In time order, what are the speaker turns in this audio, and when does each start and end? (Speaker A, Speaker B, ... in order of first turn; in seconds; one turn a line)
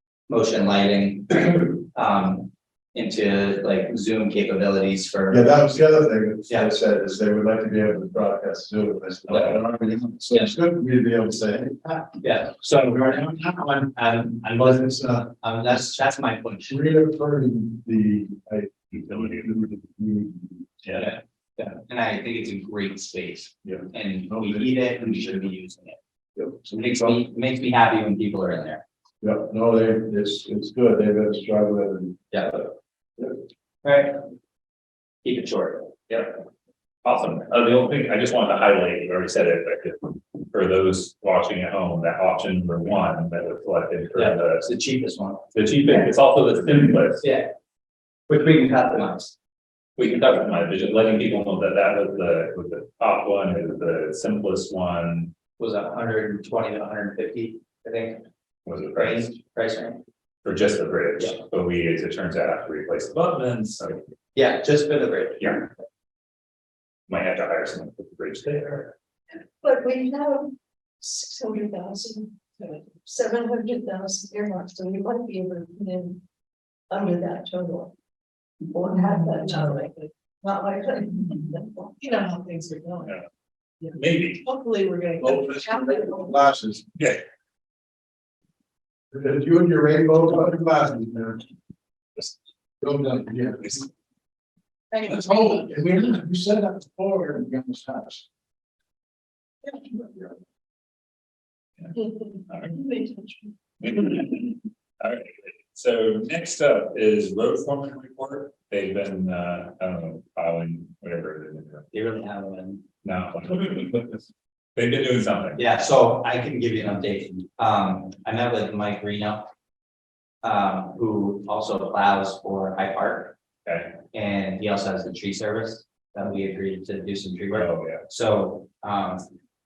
Speaker A: 0.3-5.6
Speaker B: 5.3-12.2
Speaker A: 12.2-16.8
Speaker B: 12.9-13.2
Speaker B: 14.6-15.3
Speaker B: 16.7-21.1
Speaker C: 18.9-19.4
Speaker A: 20.9-26.0
Speaker B: 23.6-25.4
Speaker B: 26.4-27.2
Speaker A: 26.7-28.8
Speaker B: 29.2-32.2
Speaker A: 32.3-32.7
Speaker A: 33.8-34.2
Speaker A: 35.2-36.0
Speaker C: 36.1-36.4
Speaker C: 37.0-44.6
Speaker A: 44.1-45.5
Speaker C: 45.5-47.2
Speaker A: 47.2-47.5
Speaker A: 48.3-49.3
Speaker C: 50.0-55.3
Speaker A: 55.6-58.2
Speaker C: 58.6-59.4
Speaker A: 59.0-60.0
Speaker C: 60.4-64.0
Speaker A: 64.3-65.7
Speaker C: 67.1-68.9
Speaker D: 69.6-76.2
Speaker D: 76.9-77.9
Speaker D: 78.7-83.1
Speaker C: 83.9-84.4
Speaker D: 84.5-86.3
Speaker B: 85.2-86.8
Speaker B: 89.1-91.5
Speaker B: 92.8-93.9
Speaker B: 95.0-98.2
Speaker C: 102.5-102.8
Speaker D: 102.8-103.5
Speaker C: 103.8-111.8
Speaker A: 111.9-112.8
Speaker C: 113.0-114.2
Speaker C: 114.8-115.6
Speaker A: 115.5-119.5
Speaker A: 120.4-123.4
Speaker C: 123.6-124.0
Speaker A: 124.1-129.3
Speaker C: 127.5-128.0